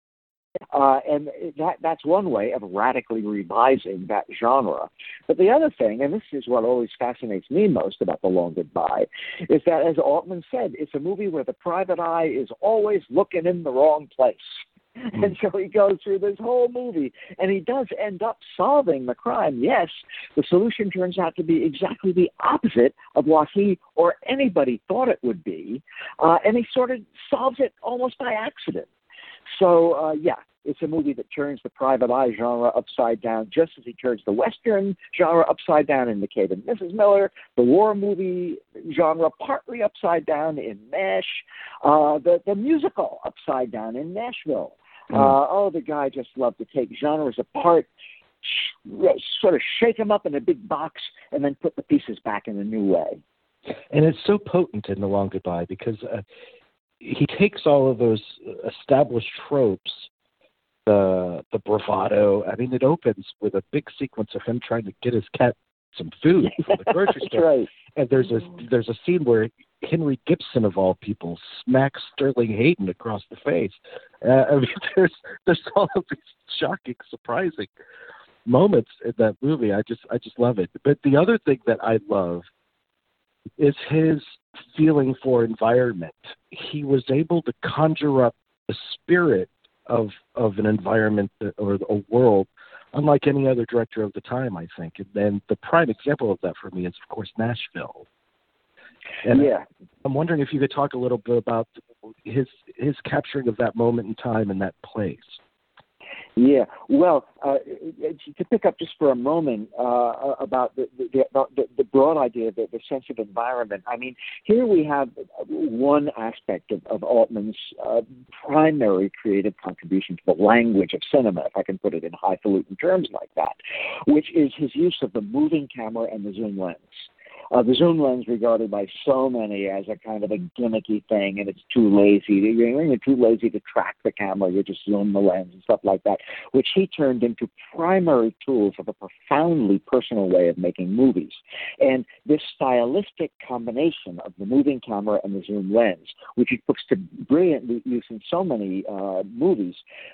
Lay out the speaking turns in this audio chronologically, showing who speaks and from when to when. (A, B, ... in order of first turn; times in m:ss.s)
0:00.7-0:28.9 A
0:29.5-0:47.9 A
0:48.4-0:53.2 A
0:53.9-0:56.2 B
0:57.0-1:00.1 B
1:00.9-1:17.7 B
1:07.2-1:07.7 A
1:18.4-1:22.4 B
1:23.6-1:38.1 B
1:39.2-1:39.5 B
1:39.3-1:39.6 A
1:40.0-1:41.7 B
1:42.2-1:45.4 B
1:46.4-2:29.8 A